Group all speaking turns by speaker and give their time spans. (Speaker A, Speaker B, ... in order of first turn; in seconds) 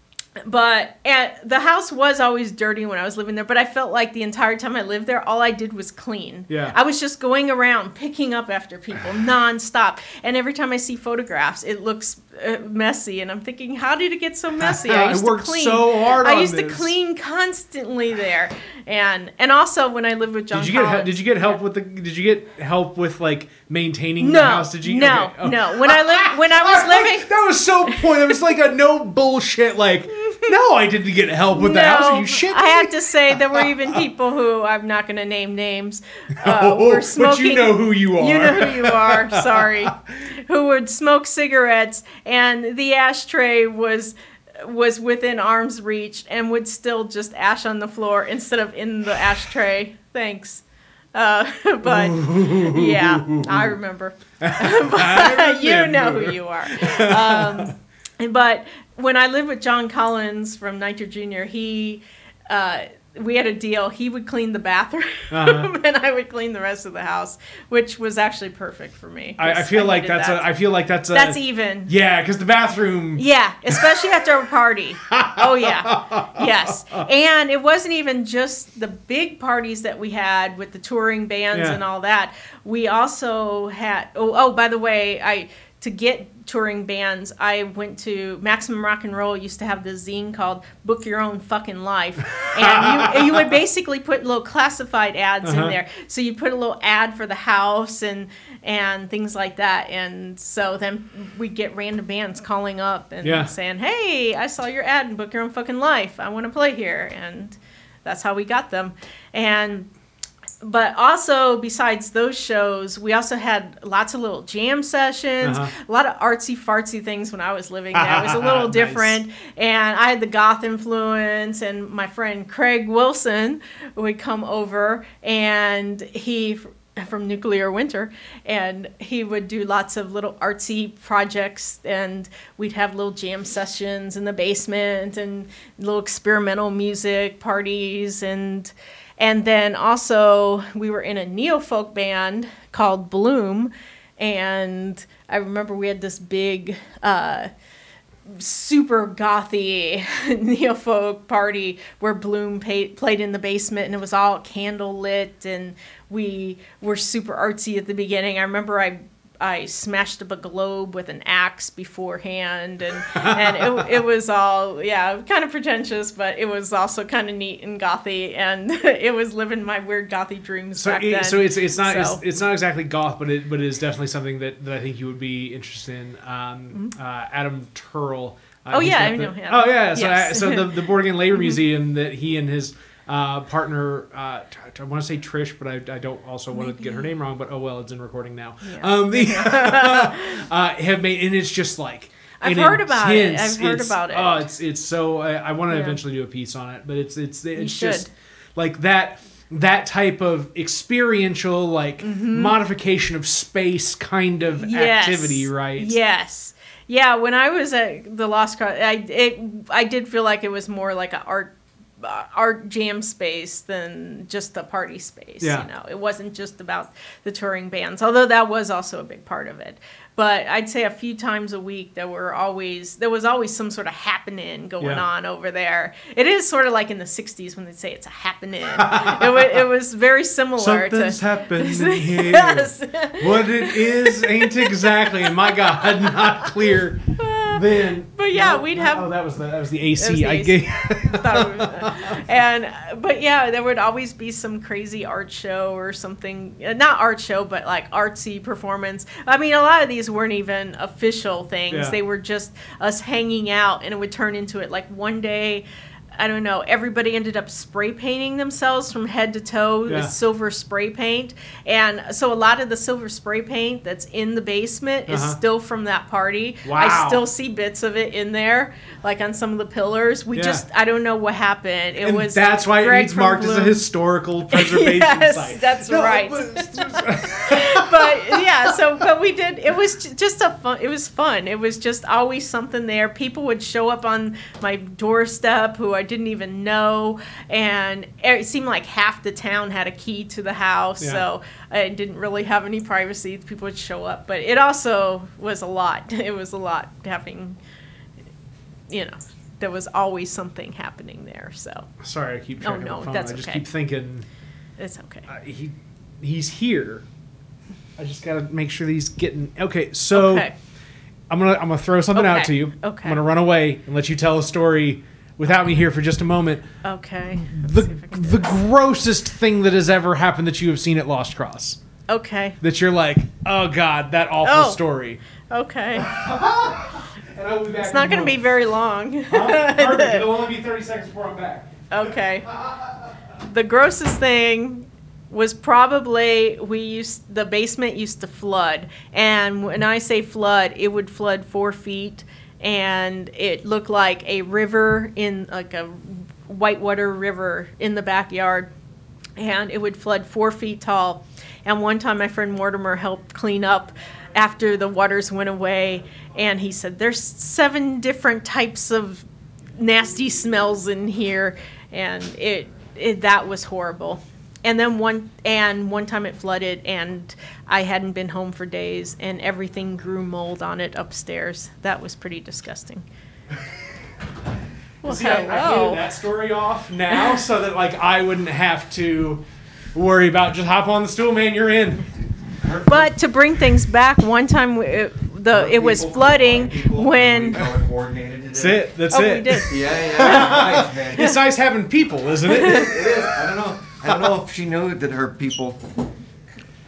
Speaker A: 0.4-21.6, 24.2-27.3, 30.2-30.5, 31.5-50.6, 51.1-70.5, 71.1-71.9, 73.2-109.9, 110.6-147.5, 148.3-172.2, 178.7-181.6, 186.5-187.1, 188.6-190.4, 192.4-194.5, 195.7-196.0, 197.6-198.1, 202.0-202.6, 204.6-236.5, 237.2-239.1, 240.0-273.8, 274.5-297.6, 298.9-301.9, 302.6-303.6, 304.8-305.3, 310.1-310.5, 312.1-313.2, 316.8-318.5, 322.1-322.6, 324.4-324.8, 325.5-326.1, 327.8-330.2, 331.9-332.5, 333.4-348.7, 349.4-359.2, 359.8-373.0, 375.0-376.0, 377.1-377.4, 382.9-387.7, 389.1-391.3, 392.5-392.9
Speaker B: 6.5-6.8, 14.6-16.9, 20.5-34.0, 36.4-39.7, 51.8-53.8, 54.4-57.7, 65.3-65.7, 69.4-73.9, 75.1-77.1, 81.5-81.8, 92.4-93.5, 95.4-95.8, 103.2-103.5, 115.4-115.7, 117.9-119.2, 163.1-163.9, 170.8-206.0, 215.4-215.7, 228.8-229.6, 230.6-242.2, 251.7-251.9, 259.9-260.1, 265.1-265.4, 266.6-267.2, 270.3-270.6, 272.0-278.7, 291.0-291.2, 302.0-304.3, 305.3-307.0, 308.0-310.5, 311.3-316.6, 317.3-321.8, 322.6-325.2, 326.0-328.4, 329.3-331.9, 332.5-332.9, 375.0-379.4, 379.9-382.1, 388.5-393.1
Speaker C: 382.6-383.1, 385.5-388.8, 389.7-391.4, 392.5-395.9